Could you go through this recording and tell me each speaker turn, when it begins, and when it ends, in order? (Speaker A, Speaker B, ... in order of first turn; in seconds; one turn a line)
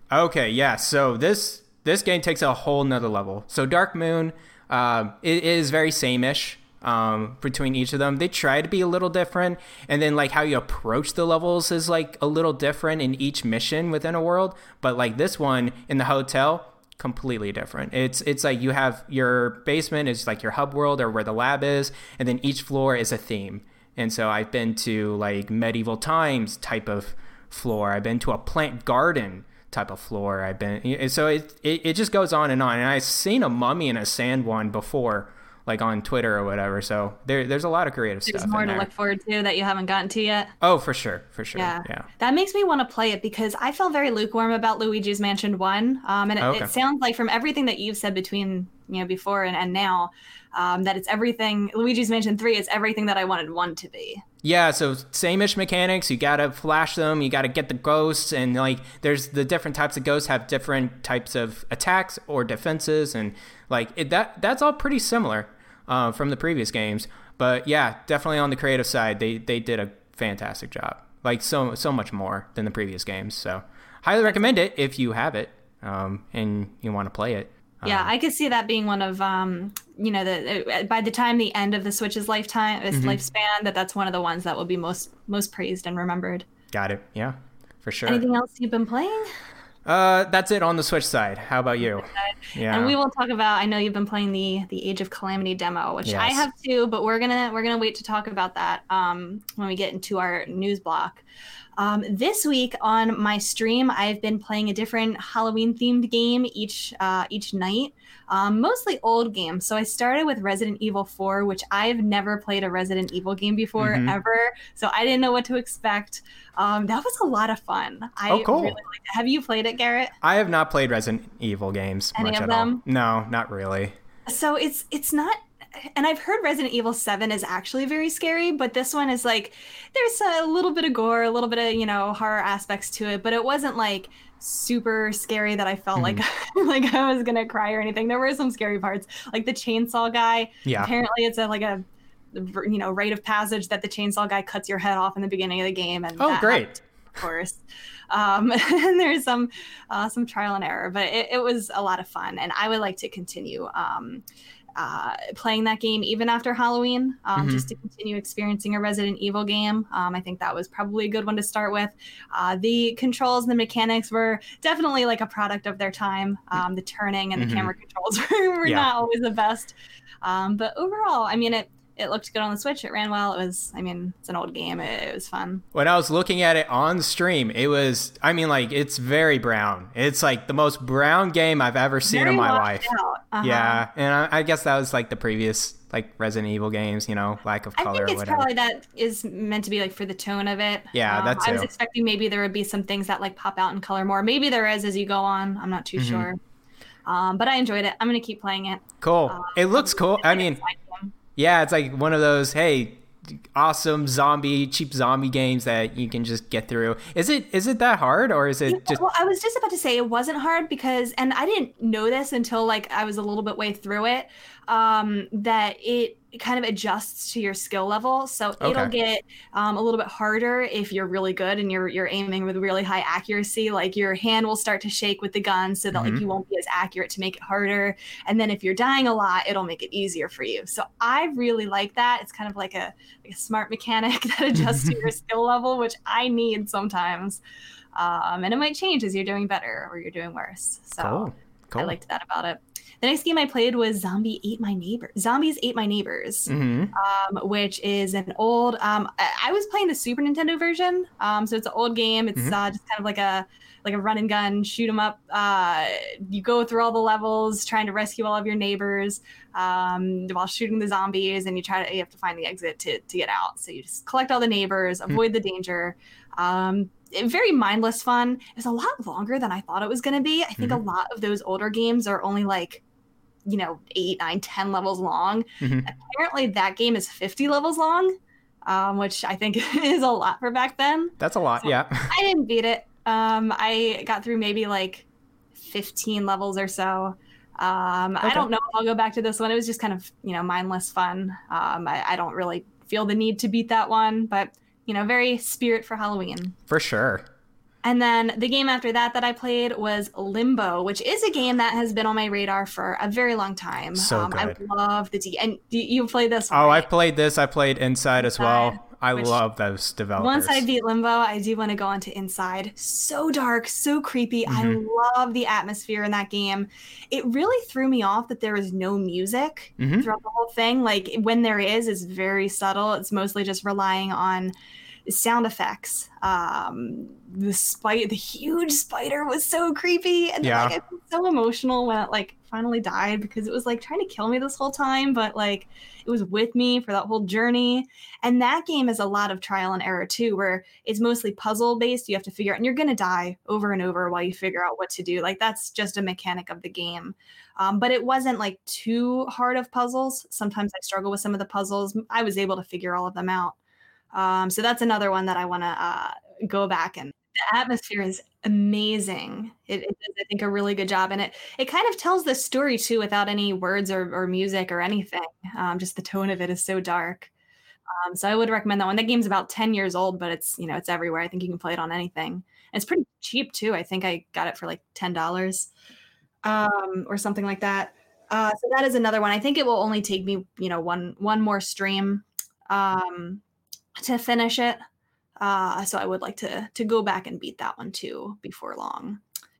Speaker A: 0.1-38.9
Speaker B: 38.2-40.5
Speaker A: 40.6-42.1
Speaker B: 41.5-54.2
Speaker A: 46.4-46.7
Speaker A: 54.4-78.1
Speaker B: 74.2-74.5
Speaker B: 77.8-86.5
Speaker A: 82.9-83.2
Speaker A: 86.7-88.2
Speaker B: 88.1-89.3
Speaker A: 89.8-93.0
Speaker B: 91.9-101.2
Speaker A: 96.0-96.4
Speaker B: 101.8-120.1
Speaker A: 113.8-114.2
Speaker A: 118.3-118.8
Speaker A: 120.2-124.0
Speaker B: 122.1-122.8
Speaker B: 124.3-154.2
Speaker A: 135.9-136.2
Speaker A: 140.6-140.9
Speaker A: 146.2-146.8
Speaker B: 154.8-175.6
Speaker A: 157.3-157.7
Speaker A: 167.3-167.7
Speaker A: 175.7-188.5
Speaker B: 182.1-183.8
Speaker B: 187.8-196.4
Speaker A: 190.9-191.7
Speaker A: 195.9-196.3
Speaker B: 197.1-201.1
Speaker A: 199.0-200.6
Speaker A: 201.3-209.0
Speaker B: 208.7-237.4
Speaker A: 218.6-218.9
Speaker A: 225.9-226.2
Speaker A: 234.6-234.9
Speaker B: 237.9-272.8
Speaker A: 241.0-242.0
Speaker A: 246.5-246.9
Speaker B: 273.4-278.1
Speaker A: 275.6-275.9
Speaker B: 278.7-285.1
Speaker A: 281.2-282.1
Speaker B: 285.6-296.6
Speaker A: 288.2-288.5
Speaker A: 296.7-297.2
Speaker B: 297.8-306.9
Speaker A: 304.0-304.6
Speaker A: 306.5-310.6
Speaker B: 308.2-309.4
Speaker B: 310.2-324.5
Speaker A: 314.5-314.8
Speaker A: 319.8-320.1
Speaker B: 325.1-353.6
Speaker A: 330.4-330.8
Speaker B: 354.1-367.3
Speaker B: 367.9-375.7
Speaker B: 376.4-383.4
Speaker B: 383.9-384.8
Speaker B: 385.4-389.2